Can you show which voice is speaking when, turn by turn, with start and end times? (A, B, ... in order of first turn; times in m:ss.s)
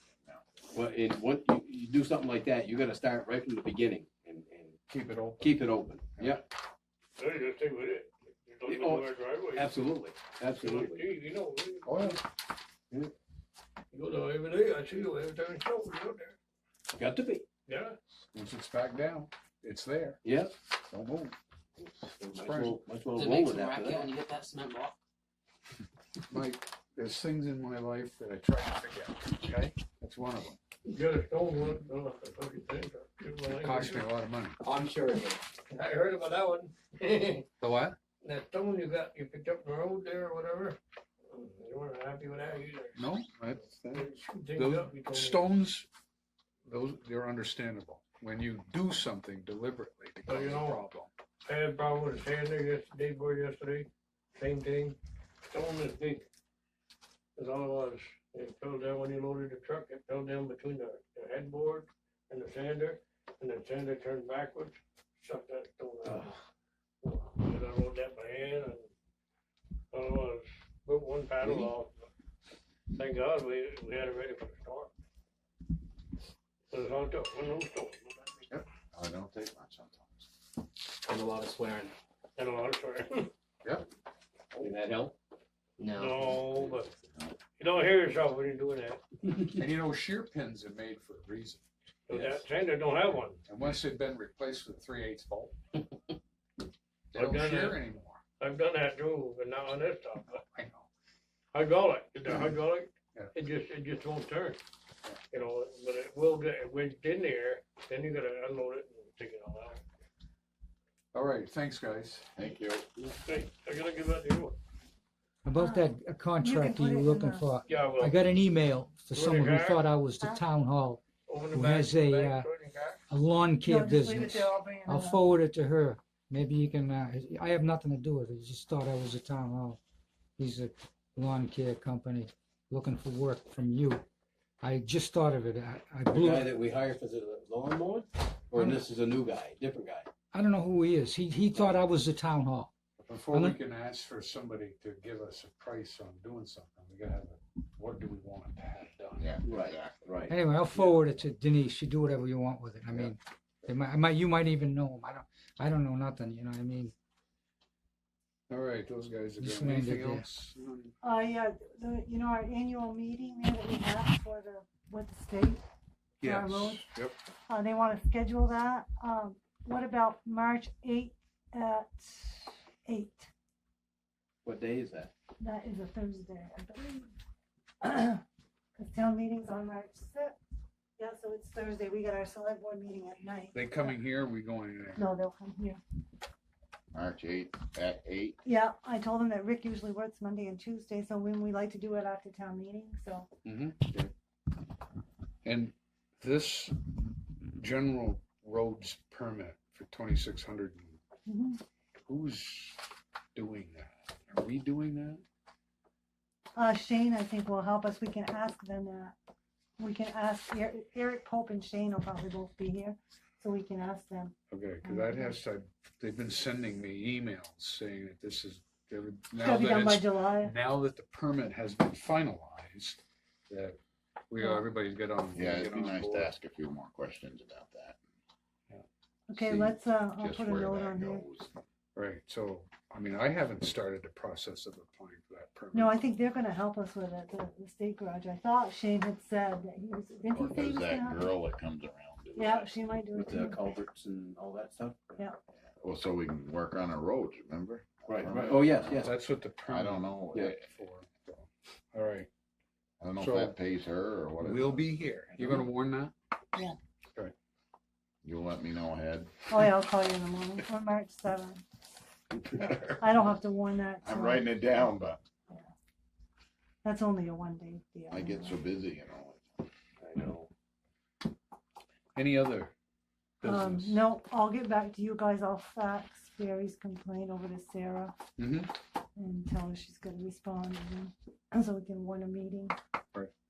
0:00.7-0:04.8 A
0:04.9-0:06.4 B
0:05.3-0:06.4 A
0:07.2-0:09.7 C
0:08.6-0:11.1 A
0:10.6-0:12.2 C
0:11.8-0:12.2 B
0:13.9-0:16.4 C
0:16.9-0:17.4 A
0:17.6-0:18.0 C
0:18.3-0:20.2 B
0:20.2-0:20.6 A
0:20.9-0:21.3 B
0:21.8-0:24.2 A
0:22.3-0:22.8 B
0:23.2-0:25.0 D
0:26.3-0:30.6 B
0:30.9-0:34.0 C
0:33.5-0:34.6 B
0:34.6-0:35.4 D
0:35.7-0:37.5 C
0:37.6-0:38.0 B
0:38.2-0:40.8 C
0:41.3-0:43.0 C
0:43.0-0:45.9 B
0:43.9-0:45.5 C
0:46.6-0:51.1 B
0:50.3-0:50.8 C
0:51.4-0:56.2 C
0:57.4-1:06.4 C
1:06.0-1:06.3 A
1:07.0-1:08.9 C
1:09.9-1:12.1 C
1:11.4-1:11.7 A
1:12.9-1:14.9 C
1:16.7-1:18.5 C
1:18.9-1:20.2 E
1:21.1-1:21.9 D
1:22.4-1:23.3 C
1:24.6-1:25.1 A
1:25.8-1:26.4 D
1:25.9-1:26.9 C
1:26.4-1:27.4 E
1:27.6-1:29.0 C
1:29.4-1:31.6 B
1:32.1-1:33.4 C
1:32.1-1:32.4 A
1:33.4-1:35.5 B
1:37.1-1:38.2 B
1:37.1-1:37.9 C
1:38.4-1:40.4 C
1:40.5-1:40.9 B
1:41.5-1:44.6 C
1:45.3-1:49.8 C
1:51.1-1:52.3 B
1:52.4-1:52.9 E
1:53.2-1:54.6 C
1:55.4-2:02.5 F
1:55.5-1:57.5 G
1:57.7-1:58.2 C
1:59.1-1:59.9 C
2:00.2-2:00.4 G
2:01.3-2:03.0 C
2:03.1-2:09.8 F
2:03.6-2:05.3 G
2:10.4-2:14.0 F
2:14.6-2:16.5 F
2:16.1-2:20.1 A
2:20.3-2:22.7 F
2:23.0-2:29.4 B
2:23.3-2:23.6 F
2:29.2-2:30.1 E
2:29.4-2:30.4 A
2:30.3-2:36.9 F
2:38.5-2:40.9 B
2:39.4-2:40.2 F
2:41.0-2:45.6 G
2:46.2-2:46.9 G
2:46.2-2:47.2 B
2:47.5-2:53.3 G
2:54.4-2:55.1 A
2:55.4-2:57.1 G
2:57.8-2:58.2 G
2:58.8-3:00.4 G
3:01.0-3:04.0 G
3:03.5-3:05.0 B
3:05.0-3:05.8 G
3:06.9-3:08.4 E
3:08.4-3:13.3 G
3:13.4-3:13.9 B
3:15.4-3:21.0 B
3:21.2-3:21.6 G
3:22.0-3:25.2 B
3:26.6-3:29.2 G
3:29.8-3:35.4 G
3:34.5-3:43.8 B
3:39.4-3:40.6 G
3:44.3-3:46.3 B
3:45.3-3:48.0 E
3:49.3-3:51.2 G
3:49.4-3:51.6 E
3:51.9-3:56.0 B
3:55.7-4:01.4 G
4:00.3-4:02.7 E
4:02.3-4:03.6 G
4:03.1-4:05.2 A
4:05.8-4:09.1 E
4:08.1-4:09.2 A
4:09.0-4:12.3 B
4:09.6-4:10.5 E
4:13.0-4:14.8 E
4:13.2-4:13.6 B
4:14.4-4:16.1 B
4:15.4-4:15.6 E
4:18.2-4:19.3 E
4:19.5-4:21.6 G
4:22.4-4:22.8 A
4:22.5-4:24.8 G
4:24.0-4:25.2 E
4:26.8-4:28.6 G
4:28.1-4:29.7 E
4:30.0-4:30.5 A
4:32.1-4:32.7 B
4:33.4-4:34.0 B
4:33.4-4:38.1 G
4:38.4-4:38.7 B
4:39.2-4:42.8 G